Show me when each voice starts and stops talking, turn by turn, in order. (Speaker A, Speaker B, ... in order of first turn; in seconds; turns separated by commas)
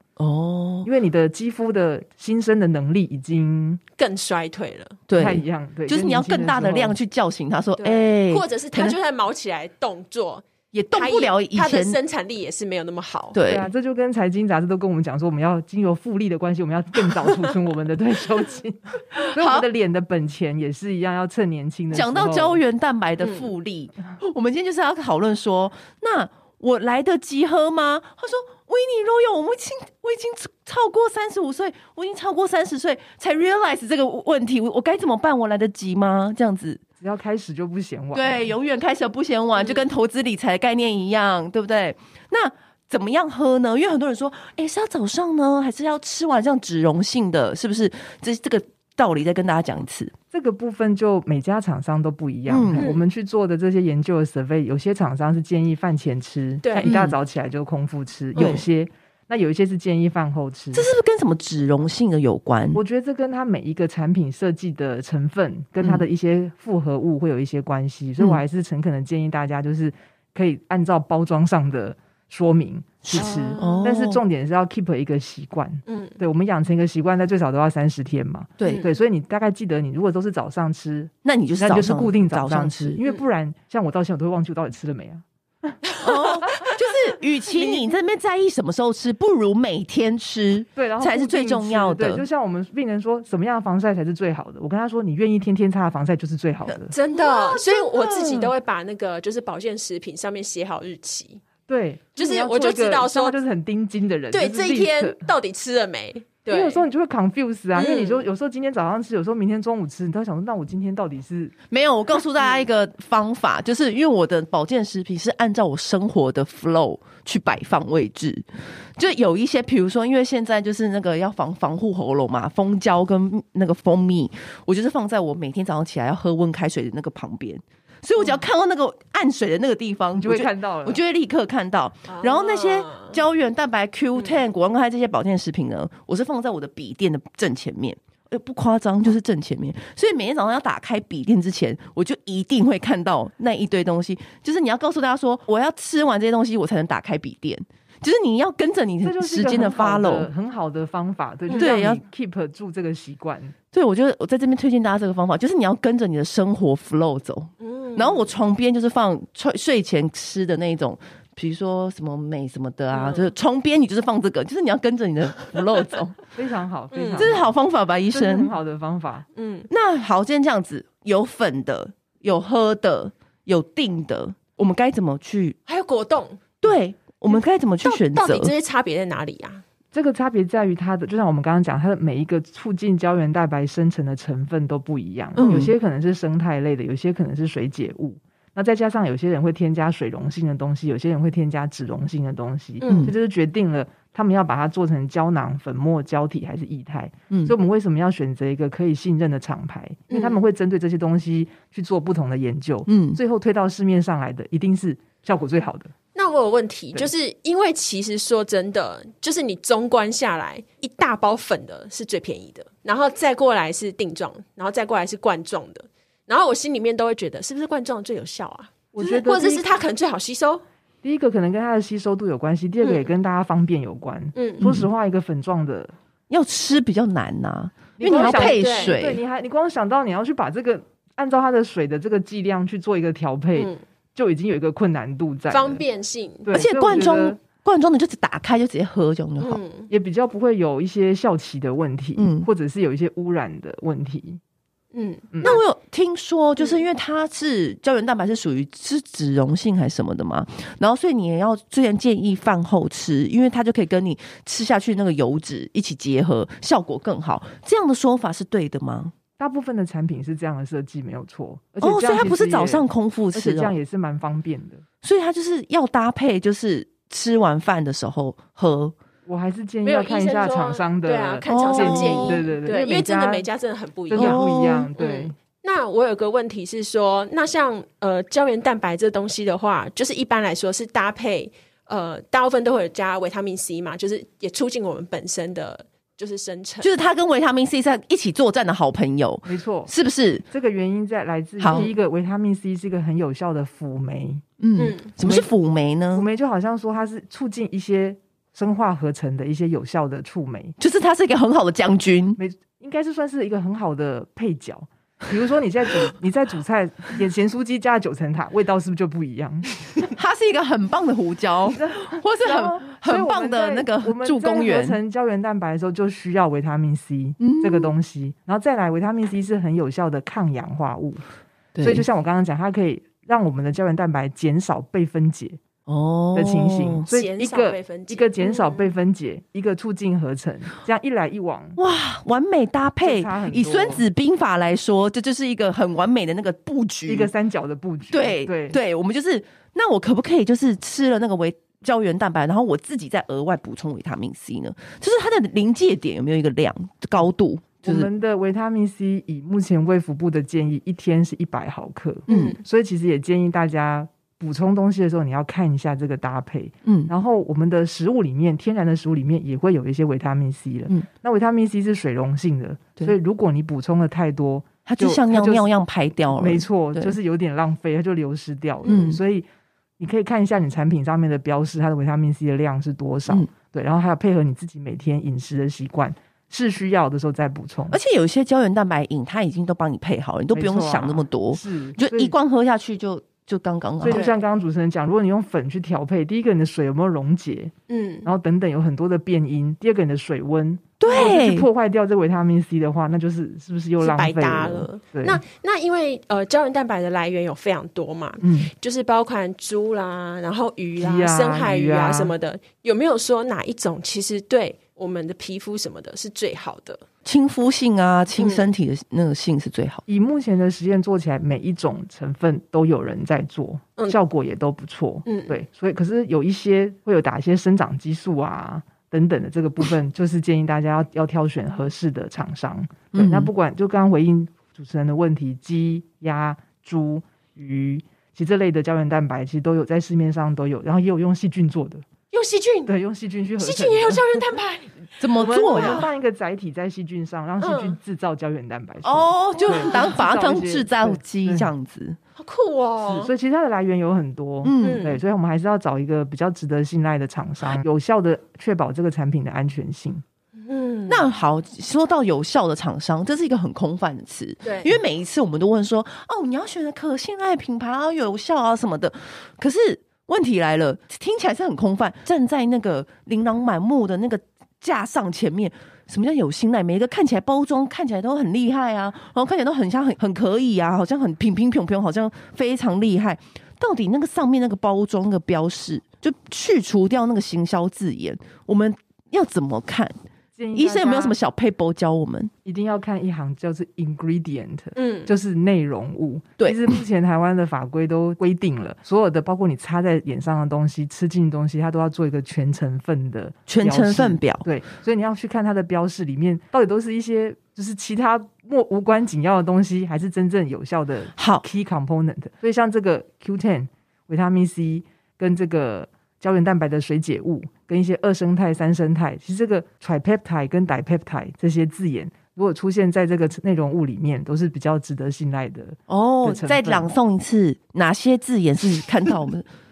Speaker A: 0.2-0.9, Speaker B: 0.8-3.8, Speaker C: 4.0-5.0, Speaker A: 5.1-8.9, Speaker B: 5.2-7.0, Speaker C: 7.8-13.4, Speaker A: 10.7-12.0, Speaker A: 13.3-13.7, Speaker B: 13.4-22.6, Speaker A: 19.2-19.7, Speaker A: 21.9-36.8, Speaker C: 23.2-23.5, Speaker B: 37.0-38.5, Speaker A: 38.1-50.1, Speaker C: 39.6-39.8, Speaker B: 50.3-60.9, Speaker A: 52.5-52.9, Speaker C: 52.8-53.0, Speaker C: 56.6-56.9, Speaker A: 56.8-57.2, Speaker A: 58.3-58.6, Speaker A: 60.7-62.8, Speaker B: 62.7-85.8, Speaker A: 73.1-74.2, Speaker C: 73.1-73.9, Speaker C: 75.9-76.2, Speaker A: 78.6-78.9, Speaker C: 78.6-78.9, Speaker A: 81.2-83.0, Speaker A: 86.0-92.2, Speaker B: 90.8-96.9, Speaker C: 96.9-101.4, Speaker A: 97.1-98.5, Speaker B: 101.7-105.3, Speaker C: 102.2-103.3, Speaker C: 104.3-106.8, Speaker B: 106.5-111.5, Speaker C: 107.7-108.2, Speaker A: 111.7-150.3, Speaker B: 130.1-131.0, Speaker C: 132.1-133.2, Speaker B: 149.0-153.5, Speaker C: 151.5-151.7, Speaker A: 151.5-152.0, Speaker A: 153.7-166.2, Speaker C: 157.6-158.3, Speaker C: 162.9-163.3, Speaker B: 166.3-167.5, Speaker C: 166.9-167.3, Speaker A: 167.1-168.5, Speaker B: 168.1-169.2, Speaker C: 169.3-169.7, Speaker A: 169.7-175.6, Speaker C: 175.7-176.4, Speaker A: 176.6-178.5, Speaker C: 177.3-179.6, Speaker B: 179.9-205.9, Speaker A: 185.4-185.7, Speaker C: 192.8-193.1, Speaker A: 192.9-193.1, Speaker C: 200.1-200.4, Speaker A: 202.9-203.2, Speaker C: 206.1-220.6, Speaker B: 218.9-219.7, Speaker B: 221.0-225.9, Speaker C: 222.8-223.1, Speaker C: 224.3-224.6, Speaker A: 224.6-224.9, Speaker A: 226.3-229.2, Speaker B: 228.0-235.8, Speaker C: 228.0-229.0, Speaker C: 233.6-233.8, Speaker C: 235.5-236.5, Speaker B: 236.4-237.4, Speaker A: 236.5-239.6, Speaker C: 239.4-239.9, Speaker B: 239.9-244.4, Speaker A: 242.2-242.5, Speaker C: 244.9-245.6, Speaker B: 245.3-245.6, Speaker A: 245.4-259.1, Speaker B: 259.4-264.8, Speaker A: 261.8-263.7, Speaker A: 265.0-268.9, Speaker B: 269.2-273.4, Speaker C: 269.8-286.9, Speaker A: 271.5-272.4, Speaker B: 274.1-275.3, Speaker A: 274.1-274.9, Speaker A: 286.8-290.4, Speaker B: 289.4-289.9, Speaker B: 290.5-294.4, Speaker A: 291.6-291.9, Speaker A: 294.6-296.3, Speaker C: 294.8-295.1, Speaker B: 295.2-295.5, Speaker B: 296.1-300.8, Speaker A: 300.8-302.4, Speaker B: 302.4-310.1, Speaker A: 310.1-315.0, Speaker B: 311.6-321.2, Speaker A: 317.4-317.9, Speaker A: 321.8-322.1, Speaker B: 321.8-325.6, Speaker A: 325.9-327.1, Speaker B: 326.3-331.8, Speaker C: 327.1-328.9, Speaker A: 331.8-337.3, Speaker B: 333.0-334.1, Speaker B: 337.1-338.8, Speaker A: 338.1-348.1, Speaker B: 347.8-365.7, Speaker C: 352.3-352.6, Speaker A: 352.3-352.5, Speaker A: 356.9-357.1, Speaker A: 364.9-367.1, Speaker B: 366.3-369.4, Speaker A: 368.8-369.2, Speaker B: 370.0-378.0, Speaker A: 377.9-384.3, Speaker B: 380.5-382.3, Speaker B: 384.0-387.7, Speaker C: 384.1-384.4, Speaker C: 387.9-388.3, Speaker B: 388.2-395.4, Speaker A: 391.0-391.7, Speaker C: 394.0-407.0, Speaker B: 398.4-398.7, Speaker B: 401.0-402.3, Speaker A: 407.2-410.0, Speaker C: 408.4-408.6, Speaker B: 410.1-432.0, Speaker C: 415.2-415.6, Speaker A: 423.1-423.5, Speaker C: 432.3-432.9, Speaker B: 432.9-434.5, Speaker C: 433.6-434.9, Speaker A: 435.2-436.1, Speaker B: 435.3-441.7, Speaker C: 435.7-436.1, Speaker C: 437.6-438.0, Speaker A: 439.0-442.2, Speaker C: 439.6-440.1, Speaker C: 442.4-443.3, Speaker B: 443.0-450.2, Speaker A: 444.6-445.1, Speaker C: 444.8-445.2, Speaker C: 450.6-451.2, Speaker A: 451.1-480.1, Speaker C: 454.6-455.0, Speaker B: 480.6-481.4, Speaker A: 480.7-482.5, Speaker B: 482.6-517.1, Speaker C: 484.9-485.3, Speaker A: 486.6-487.0, Speaker A: 493.7-494.6, Speaker A: 501.4-501.6, Speaker A: 516.1-519.7